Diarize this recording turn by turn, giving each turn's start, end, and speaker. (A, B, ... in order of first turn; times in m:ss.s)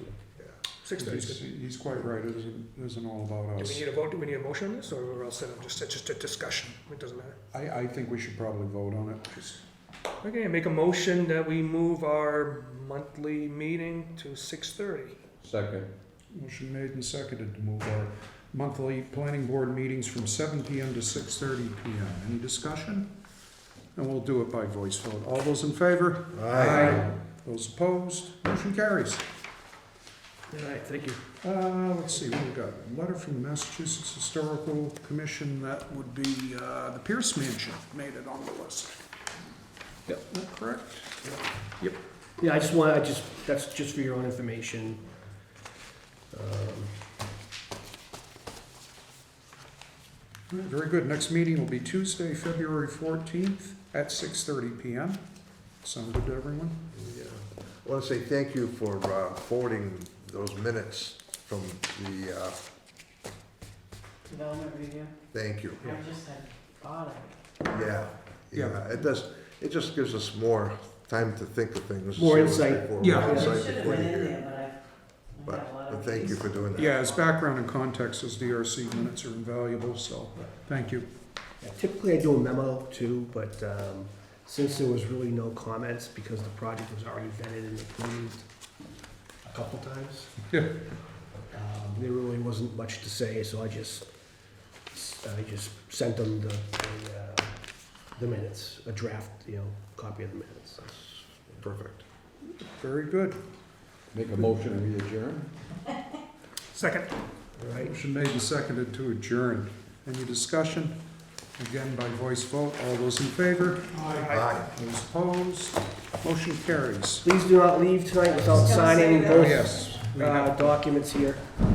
0:00.8-0:01.4 A
0:00.9-0:03.9 B
0:03.6-0:07.4 A
0:07.5-0:09.6 B
0:10.2-0:15.2 A
0:15.4-0:15.9 C
0:16.3-0:23.1 B
0:24.0-0:29.2 B
0:26.3-0:27.2 D
0:30.5-0:31.2 E
0:31.4-0:39.0 B
0:40.1-0:41.2 B
0:42.4-0:45.1 E
0:46.3-0:47.0 E
0:50.5-0:55.2 B
0:55.7-0:56.9 B
0:56.9-1:02.6 D
1:04.3-1:05.1 F
1:05.3-1:06.1 D
1:05.9-1:07.6 F
1:07.6-1:14.6 D
1:08.5-1:08.9 B
1:12.2-1:13.6 E
1:13.0-1:13.4 B
1:13.4-1:14.8 F
1:15.3-1:17.1 F
1:15.4-1:17.0 D
1:16.8-1:21.1 B
1:21.6-1:28.5 E
1:29.4-1:30.4 E
1:31.5-1:34.1 E
1:34.9-1:37.6 E
1:38.1-1:41.2 E
1:41.6-1:42.0 D
1:42.4-1:43.4 B
1:44.1-1:46.0 C
1:46.7-1:47.1 A
1:47.6-1:48.0 E
1:47.7-1:51.0 B
1:51.6-1:57.2 B
1:53.9-1:54.6 A
1:54.3-1:54.7 D
1:57.2-2:01.5 E
1:59.0-1:59.4 F
1:59.3-2:00.8 B